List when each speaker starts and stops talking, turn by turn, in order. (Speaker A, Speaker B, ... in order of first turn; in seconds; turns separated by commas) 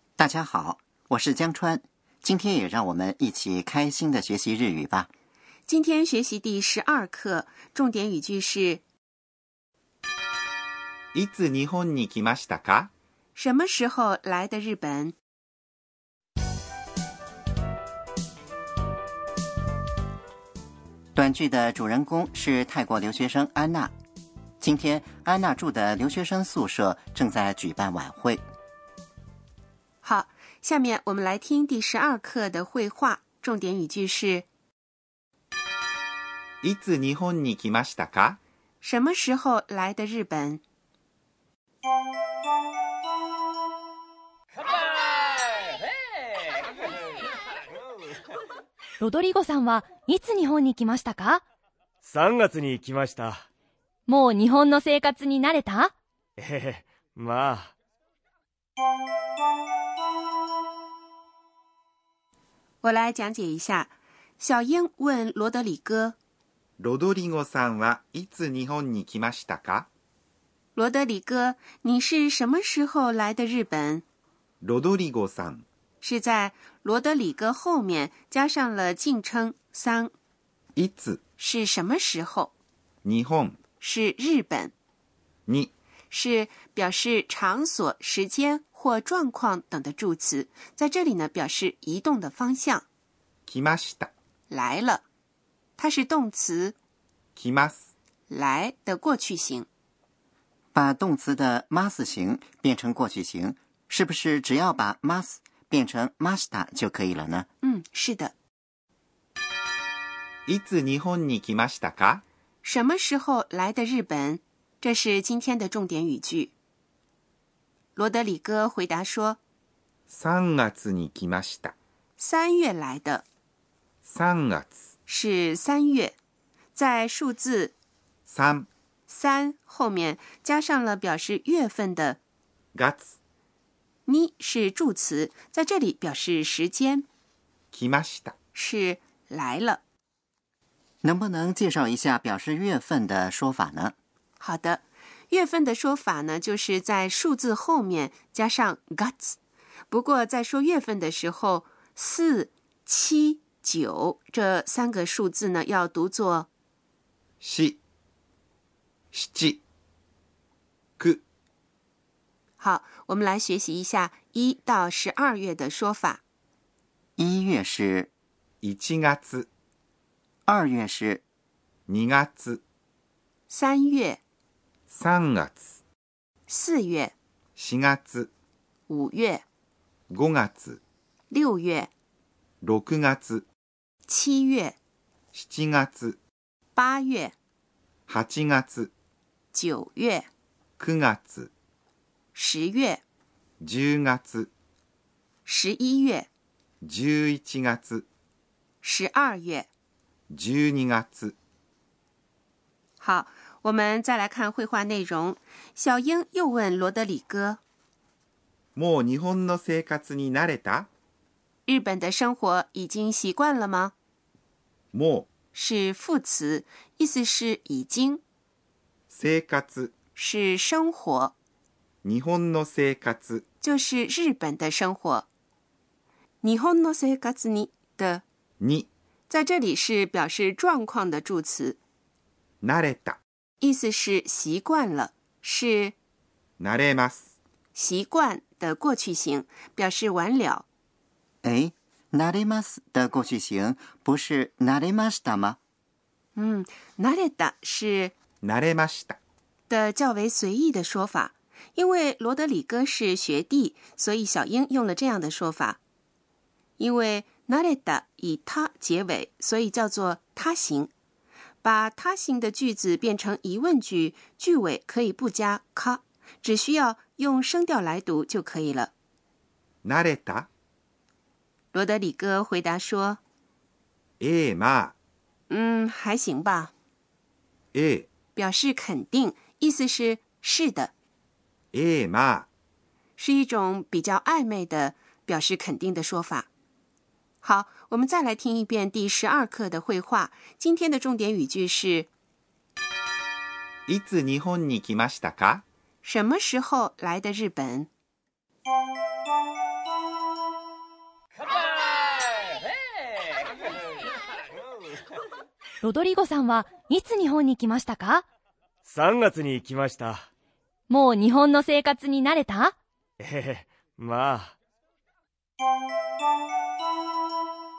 Speaker A: 0.2-5.1, Speaker B: 5.7-8.8, Speaker C: 11.1-12.9, Speaker B: 13.3-15.2, Speaker A: 21.1-23.9, Speaker A: 24.6-28.4, Speaker B: 30.0-34.5, Speaker C: 36.6-38.4, Speaker B: 38.8-40.6, Speaker D: 49.0-51.4, Speaker E: 52.0-53.5, Speaker D: 54.1-55.9, Speaker E: 56.4-57.7, Speaker B: 62.8-66.2, Speaker C: 66.8-69.9, Speaker B: 70.8-74.0, Speaker C: 74.6-75.6, Speaker B: 76.0-80.1, Speaker C: 80.8-81.2, Speaker B: 81.4-82.5, Speaker C: 83.0-83.6, Speaker B: 83.8-84.7, Speaker C: 85.5-85.7, Speaker B: 86.1-92.9, Speaker C: 93.5-94.1, Speaker B: 94.5-95.0, Speaker B: 95.8-96.8, Speaker C: 97.4-97.9, Speaker B: 98.3-99.7, Speaker A: 100.7-107.5, Speaker B: 107.6-108.3, Speaker C: 110.5-112.2, Speaker B: 112.6-116.5, Speaker B: 118.0-119.4, Speaker C: 120.1-121.7, Speaker B: 122.2-123.2, Speaker C: 124.0-124.8, Speaker B: 125.1-126.1, Speaker B: 126.7-127.7, Speaker C: 128.2-128.7, Speaker B: 129.1-132.2, Speaker C: 132.8-133.1, Speaker B: 134.1-137.1, Speaker C: 137.7-138.3, Speaker B: 138.5-139.8, Speaker A: 141.0-143.9, Speaker B: 144.4-149.4, Speaker B: 149.9-156.5, Speaker C: 157.4-157.8, Speaker C: 159.1-159.6, Speaker B: 162.6-166.2, Speaker A: 167.2-168.1, Speaker C: 168.6-169.5, Speaker A: 170.5-171.2, Speaker C: 171.9-172.6, Speaker B: 173.5-174.2, Speaker C: 174.9-175.7, Speaker B: 176.5-177.1, Speaker C: 177.6-178.3, Speaker B: 178.9-179.4, Speaker C: 180.1-180.8, Speaker B: 181.3-181.9, Speaker C: 182.6-183.4, Speaker B: 184.1-184.8, Speaker C: 185.3-186.2, Speaker B: 186.8-187.3, Speaker C: 188.1-188.9, Speaker B: 189.5-190.3, Speaker C: 190.8-191.5, Speaker B: 192.3-193.0, Speaker C: 193.6-194.5, Speaker B: 195.4-196.3, Speaker C: 196.8-198.1, Speaker B: 198.8-199.7, Speaker C: 200.3-201.4, Speaker B: 203.0-207.6, Speaker C: 208.8-210.9, Speaker B: 211.7-213.9, Speaker C: 214.9-215.3, Speaker B: 215.5-218.2, Speaker C: 219.1-219.9, Speaker B: 220.2-221.3, Speaker C: 222.0-223.4, Speaker B: 223.6-225.3, Speaker B: 226.4-228.2, Speaker C: 228.6-228.9, Speaker B: 229.3-231.8, Speaker C: 232.6-233.2, Speaker B: 233.6-235.9, Speaker C: 236.6-237.3, Speaker B: 237.8-240.7, Speaker A: 241.4-245.6, Speaker B: 246.3-248.1, Speaker C: 248.4-249.2, Speaker B: 249.7-255.8, Speaker B: 256.8-260.9, Speaker B: 261.6-268.9, Speaker C: 269.8-270.5, Speaker B: 271.7-273.2, Speaker C: 274.2-274.9, Speaker B: 275.5-276.7, Speaker C: 277.7-278.1, Speaker B: 278.4-280.9, Speaker C: 281.7-282.5, Speaker B: 283.2-286.5, Speaker B: 287.4-292.1, Speaker C: 293.9-295.6, Speaker B: 296.0-297.9, Speaker D: 305.8-308.2, Speaker E: 308.9-310.2, Speaker D: 310.9-312.7, Speaker E: 313.2-314.6